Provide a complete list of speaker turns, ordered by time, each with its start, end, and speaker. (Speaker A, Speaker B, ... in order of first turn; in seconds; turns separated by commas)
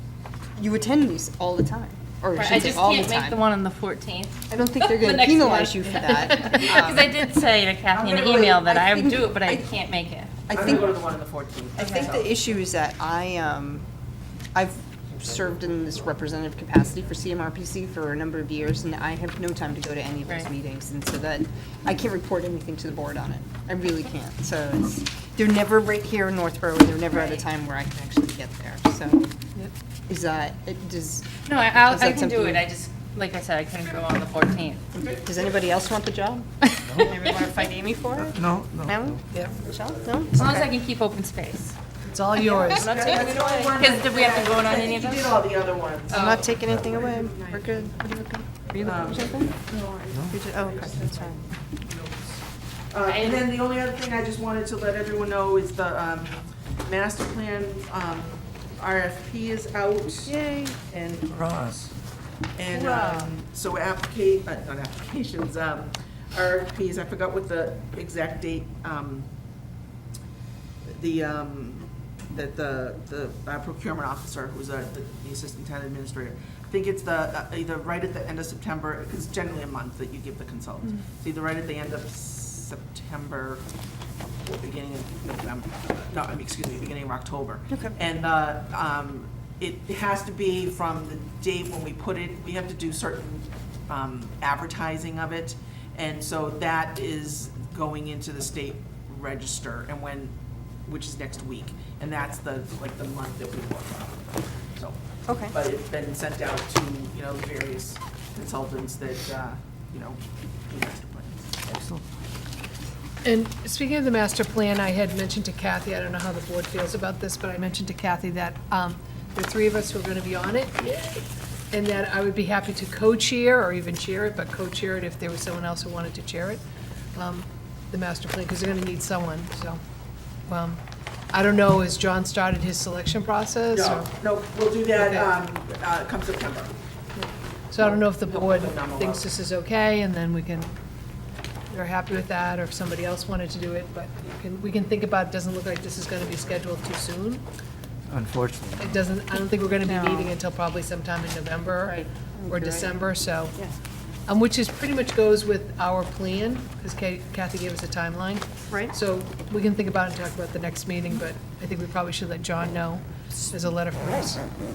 Speaker A: 0.6-3.4, Speaker B: 2.4-10.3, Speaker A: 4.5-7.2, Speaker C: 7.9-8.6, Speaker A: 8.5-9.8, Speaker A: 10.5-11.0, Speaker C: 10.5-12.4, Speaker A: 11.8-13.8, Speaker B: 11.8-12.0, Speaker A: 14.5-29.3, Speaker B: 27.1-27.4, Speaker A: 30.1-32.7, Speaker B: 31.5-34.8, Speaker C: 34.9-35.2, Speaker A: 35.2-40.7, Speaker B: 36.7-37.1, Speaker D: 38.3-39.1, Speaker B: 40.3-41.7, Speaker E: 42.1-42.9, Speaker C: 42.6-47.3, Speaker B: 42.8-45.3, Speaker B: 46.1-46.4, Speaker A: 46.1-49.5, Speaker B: 48.7-49.5, Speaker C: 48.8-52.3, Speaker A: 50.3-51.4, Speaker C: 52.9-60.3, Speaker B: 53.0-53.5, Speaker A: 60.2-60.8, Speaker C: 60.9-61.9, Speaker D: 61.3-61.7, Speaker C: 62.5-69.3, Speaker A: 62.7-63.3, Speaker C: 70.9-83.6, Speaker C: 84.4-100.3, Speaker A: 87.7-87.9, Speaker C: 100.8-105.0, Speaker A: 105.3-105.5, Speaker C: 105.5-111.6, Speaker D: 111.7-112.0, Speaker E: 113.2-126.6, Speaker E: 127.1-129.8, Speaker E: 130.5-130.8, Speaker E: 131.3-134.1, Speaker C: 133.7-136.7, Speaker E: 134.9-135.3, Speaker E: 137.2-140.7, Speaker C: 137.8-139.2, Speaker E: 141.7-147.4, Speaker D: 148.1-148.9, Speaker E: 148.8-153.6, Speaker A: 149.8-150.3, Speaker A: 151.9-153.0, Speaker E: 154.3-164.4, Speaker A: 158.7-158.9